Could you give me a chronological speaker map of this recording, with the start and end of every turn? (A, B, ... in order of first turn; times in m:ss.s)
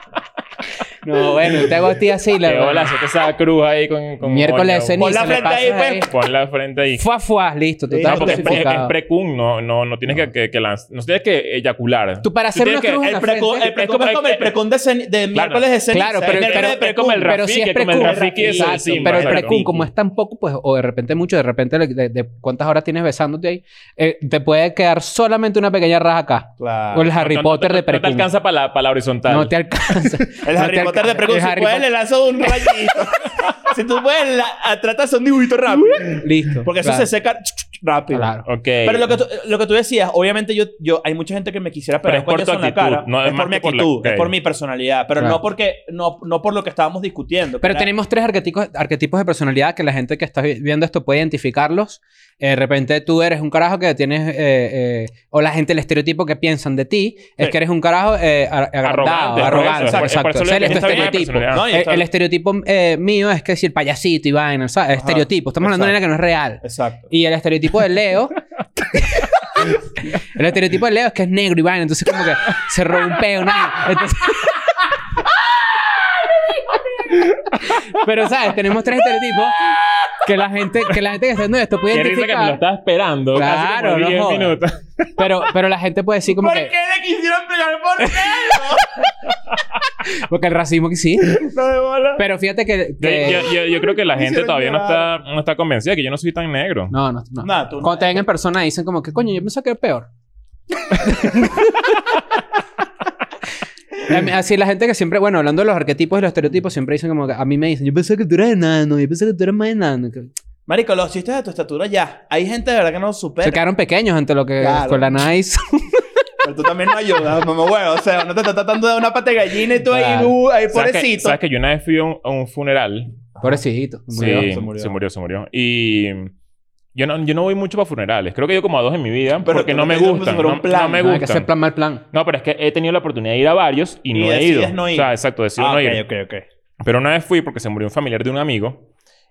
0:01.0-0:02.9 A
0:01.5-0:01.8 B
0:02.4-0:05.4 B
0:04.2-0:06.1 A
0:05.0-0:06.1 C
0:06.1-0:07.1 B
0:07.0-0:08.9 A
0:07.9-0:08.8 C
0:08.0-0:14.6 B
0:12.2-0:13.7 A
0:13.0-0:17.4 C
0:15.3-0:15.7 B
0:15.9-0:28.3 A
0:16.2-0:19.7 B
0:18.0-0:19.9 C
0:26.6-0:27.1 C
0:27.1-0:29.5 B
0:29.3-0:31.9 A
0:30.4-0:38.3 C
0:35.8-0:37.1 A
0:38.1-0:38.5 A
0:38.5-0:39.2 B
0:38.8-0:47.9 C
0:42.1-0:44.3 B
0:47.6-1:08.4 A
0:58.8-1:01.6 B
0:59.4-1:02.1 C
1:05.0-1:06.0 C
1:06.6-1:07.1 C
1:08.9-1:14.6 A
1:17.0-1:17.8 B
1:17.8-1:22.6 A
1:21.9-1:25.3 B
1:23.3-1:24.6 A
1:25.2-1:26.7 A
1:26.3-1:29.1 C
1:30.0-1:31.4 A
1:31.4-1:32.2 C
1:32.2-1:33.5 A
1:33.0-1:36.9 B
1:33.9-1:35.1 C
1:36.9-1:40.1 A
1:37.4-1:38.2 C
1:41.0-1:41.9 A
1:44.1-1:50.3 A
1:50.7-1:53.6 C
1:53.4-1:56.0 A
1:54.6-1:55.2 C
1:56.4-2:01.4 C
1:59.9-2:00.4 A
2:00.7-2:03.1 B
2:03.4-2:05.0 C
2:03.4-2:04.5 A
2:04.1-2:06.3 B
2:07.0-2:11.5 B
2:09.4-2:11.2 C
2:11.0-2:12.0 A
2:12.1-2:16.0 B
2:14.1-2:16.5 C
2:16.8-2:18.8 B